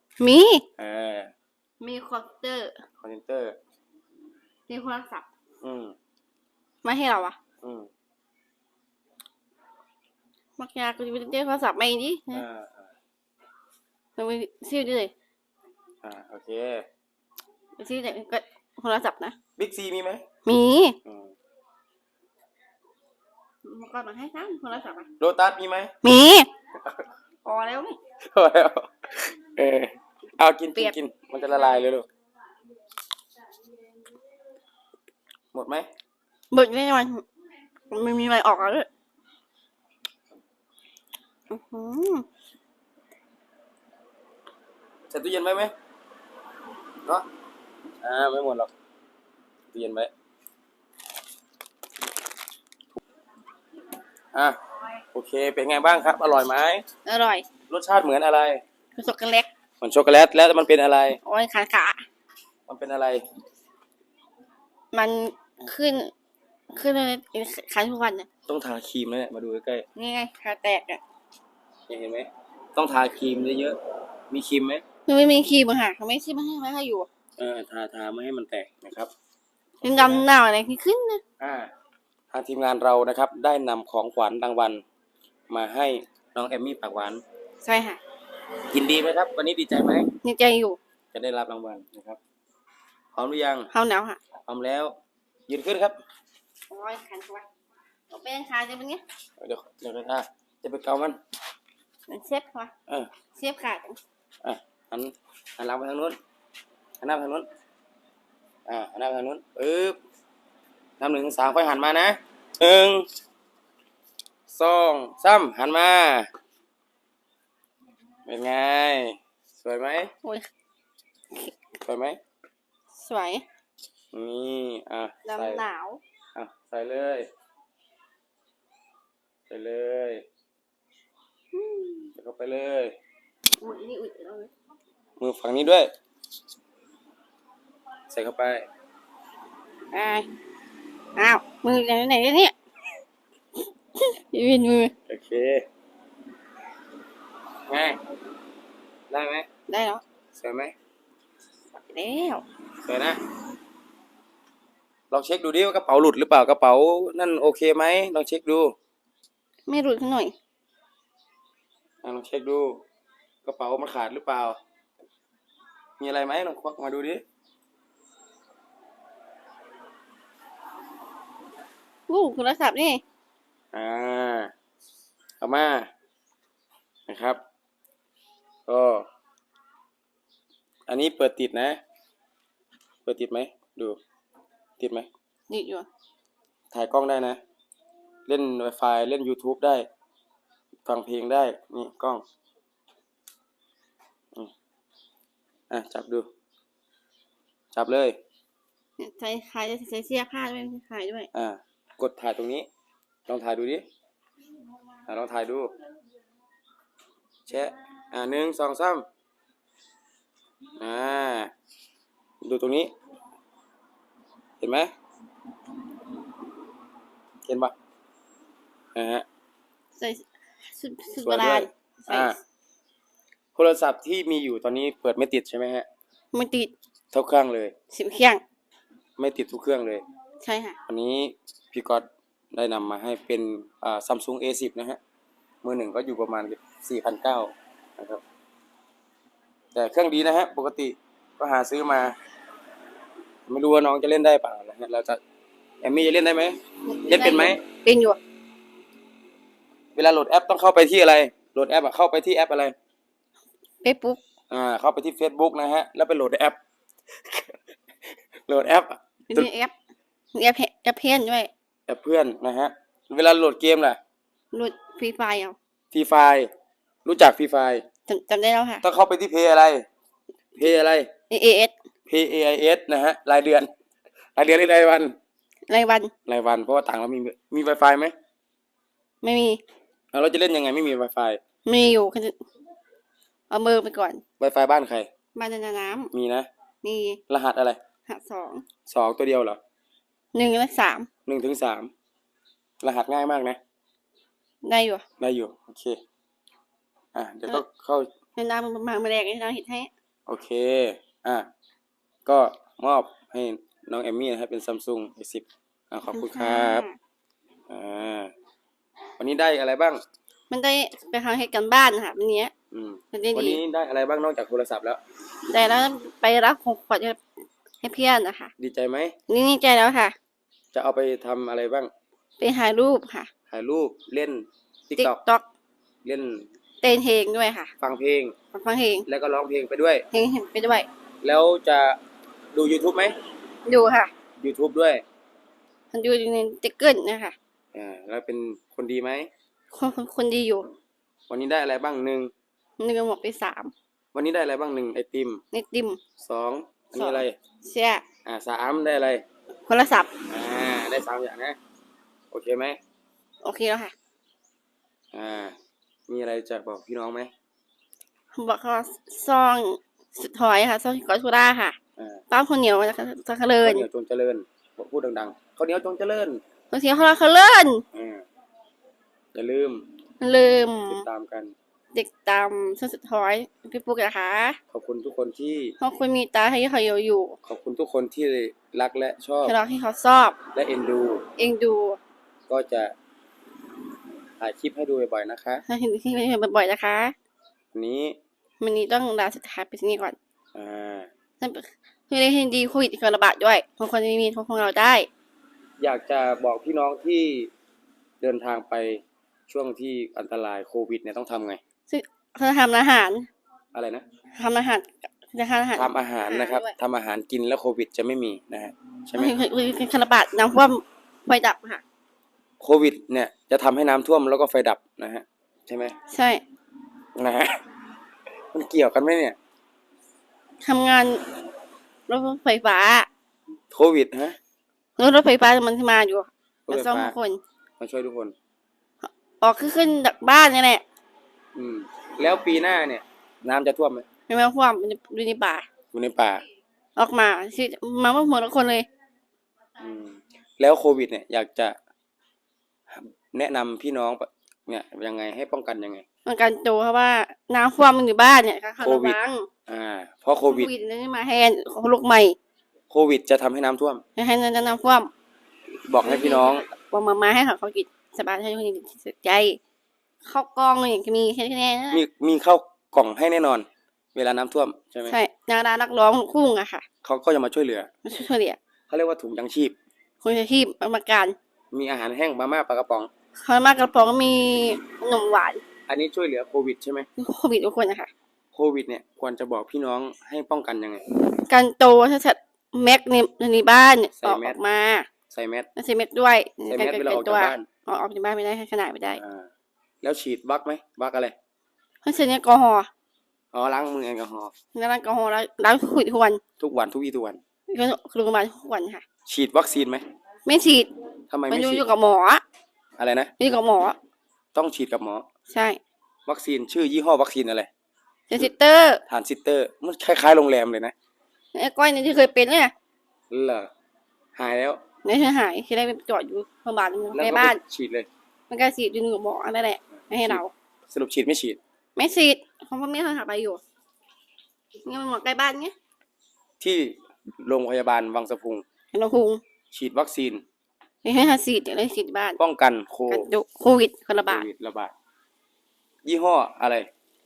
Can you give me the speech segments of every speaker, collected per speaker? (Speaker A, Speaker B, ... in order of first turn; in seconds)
Speaker A: 0.2-0.7, 1.8-2.8, 4.7-5.3, 6.8-7.4, 10.6-12.4, 14.2-15.1, 17.8-19.4, 20.5-21.0, 23.6-25.1, 26.0-26.5, 27.4-28.0, 36.5-37.2, 37.9-38.9, 41.5-42.2, 57.1-57.5, 59.0-59.5, 61.2-62.0, 64.9-66.1, 66.7-68.3, 70.0-71.0, 75.1-77.1, 79.8-81.2, 87.6-88.0, 90.2-90.8, 93.7-94.2, 96.7-97.5, 98.1-99.0, 102.1-102.7, 103.4-104.0, 123.0-123.5, 125.3-126.0, 131.5-132.1, 133.6-134.5, 139.9-140.3, 141.2-142.5, 144.0-144.9, 149.7-150.0, 151.8-152.4, 159.7-160.3, 172.1-173.0, 185.5-185.9, 199.0-201.3, 220.0-222.4, 226.3-226.7, 227.9-228.4, 230.4-230.8, 246.9-248.2, 253.8-254.2, 259.3-259.7, 260.4-261.5, 264.5-265.6, 268.1-268.8, 271.3-271.7, 275.7-276.1, 279.2-279.6, 281.7-282.4, 283.5-284.2, 285.4-286.1, 286.8-287.2, 288.1-288.7, 290.3-291.1, 294.6-295.0, 298.4-299.9, 306.1-307.0, 310.5-312.5, 313.1-313.6, 315.5-317.2, 317.8-318.5, 319.3-320.1, 322.4-323.3, 325.0-325.4, 326.8-327.7, 328.5-329.1, 330.1-330.9, 333.7-334.1, 335.9-337.4, 339.7-340.7, 342.8-343.7, 345.5-346.0, 346.9-348.0, 349.7-350.1, 353.4-353.9, 358.4-361.8, 362.3-363.9, 366.7-367.8, 370.2-371.1, 371.9-374.6, 375.8-377.4, 379.4-380.4, 381.4-382.0, 385.7-387.1, 388.6-390.2, 391.4-395.1, 401.9-403.3, 404.4-406.8, 409.1-411.8, 416.1-416.4, 420.6-421.2, 422.1-423.1, 425.0-427.4, 429.0-430.8, 434.3-435.7, 437.0-438.9, 446.3-449.5, 450.5-452.4, 454.2-455.1, 456.0-459.6, 460.2-462.0, 465.1-466.9, 468.1-468.6, 470.2-471.4, 473.4-475.6, 477.2-478.1, 481.4-485.1, 485.8-489.2, 492.0-492.9, 494.8-496.4, 497.7-499.1, 500.5-500.9, 501.5-502.4, 503.4-504.0, 505.5-505.8, 508.3-509.0, 511.5-512.7, 515.0-517.6, 518.5-520.5, 522.0-523.6, 524.9-525.7, 528.9-529.4, 531.0-532.4, 533.1-534.5
Speaker B: 0.8-1.3, 3.0-3.6, 5.6-6.0, 7.6-7.9, 12.3-12.9, 16.0-16.9, 19.6-20.2, 21.1-21.3, 25.2-25.9, 28.2-32.1, 35.5-35.9, 45.1-45.7, 48.0-48.7, 49.7-50.1, 55.1-56.8, 57.7-58.6, 59.8-61.2, 62.7-63.2, 68.5-69.8, 71.9-73.8, 74.3-74.8, 77.4-79.1, 79.8-80.3, 81.4-81.7, 82.3-84.8, 85.5-87.2, 88.7-90.1, 91.1-92.2, 93.2-93.7, 94.5-94.9, 95.5-96.0, 99.4-101.2, 104.4-106.2, 107.0-107.5, 108.7-110.0, 111.0-113.1, 114.5-116.3, 118.3-120.1, 121.8-122.2, 124.1-125.6, 126.3-127.3, 129.5-130.2, 132.2-133.0, 135.2-135.9, 138.1-138.7, 145.1-145.7, 147.7-148.0, 149.1-149.5, 150.3-150.7, 152.9-153.2, 155.1-158.7, 162.0-162.8, 163.4-164.6, 166.0-167.2, 173.7-174.5, 175.4-175.9, 177.1-177.4, 178.7-179.1, 180.9-181.8, 183.1-184.0, 184.8-185.1, 186.7-187.4, 188.3-189.9, 190.9-192.2, 195.7-196.3, 197.7-198.2, 201.3-202.7, 203.3-203.8, 205.1-205.7, 207.5-209.1, 210.8-211.5, 212.4-212.9, 214.6-214.9, 217.5-217.7, 218.9-219.2, 221.2-222.4, 223.6-225.9, 227.1-227.7, 229.2-230.0, 230.9-235.0, 235.6-238.2, 239.7-242.2, 243.5-245.2, 245.8-247.6, 250.0-252.8, 254.5-256.6, 257.2-257.6, 258.5-259.5, 261.9-264.0, 265.9-266.5, 267.1-267.8, 268.8-269.9, 270.6-271.1, 272.1-273.7, 274.4-275.2, 276.3-278.1, 280.1-281.4, 284.4-285.1, 286.1-286.5, 287.3-287.8, 288.9-289.6, 291.3-291.9, 292.8-293.6, 295.2-296.0, 297.1-298.1, 300.3-301.5, 302.3-306.9, 307.7-308.3, 309.2-310.0, 312.7-315.0, 318.6-319.1, 320.7-321.9, 323.5-325.2, 326.1-326.5, 327.8-328.4, 329.1-330.1, 331.2-332.0, 332.5-333.1, 334.4-335.0, 337.7-339.3, 341.3-342.3, 344.1-345.4, 346.2-347.4, 348.2-349.2, 350.3-351.6, 352.3-352.8, 355.1-355.6, 356.1-357.3, 362.0-362.2, 363.6-366.4, 367.9-368.3, 369.3-369.9, 370.9-371.6, 374.7-375.8, 377.4-379.6, 380.6-381.3, 382.5-382.9, 384.4-385.6, 387.7-388.2, 390.6-391.1, 395.8-397.5, 398.2-401.6, 403.7-404.0, 405.8-409.4, 412.6-415.9, 417.2-417.6, 418.5-419.4, 423.7-424.4, 426.7-427.1, 427.8-428.4, 431.6-434.1, 435.9-436.4, 439.8-441.8, 442.9-446.1, 448.8-450.7, 452.9-454.0, 455.9-456.7, 461.9-465.2, 467.0-467.9, 468.9-469.8, 471.7-473.1, 475.9-477.1, 478.5-481.0, 484.2-484.6, 485.3-485.7, 486.7-487.7, 489.1-489.5, 490.0-491.4, 493.5-494.5, 496.6-497.4, 499.3-500.1, 501.3-501.9, 503.0-503.3, 504.5-505.2, 506.3-507.7, 509.1-510.9, 513.3-513.7, 514.4-514.8, 517.1-518.1, 520.1-521.6, 526.6-528.6, 529.7-530.4, 532.4-533.3, 534.2-534.9, 536.0-536.9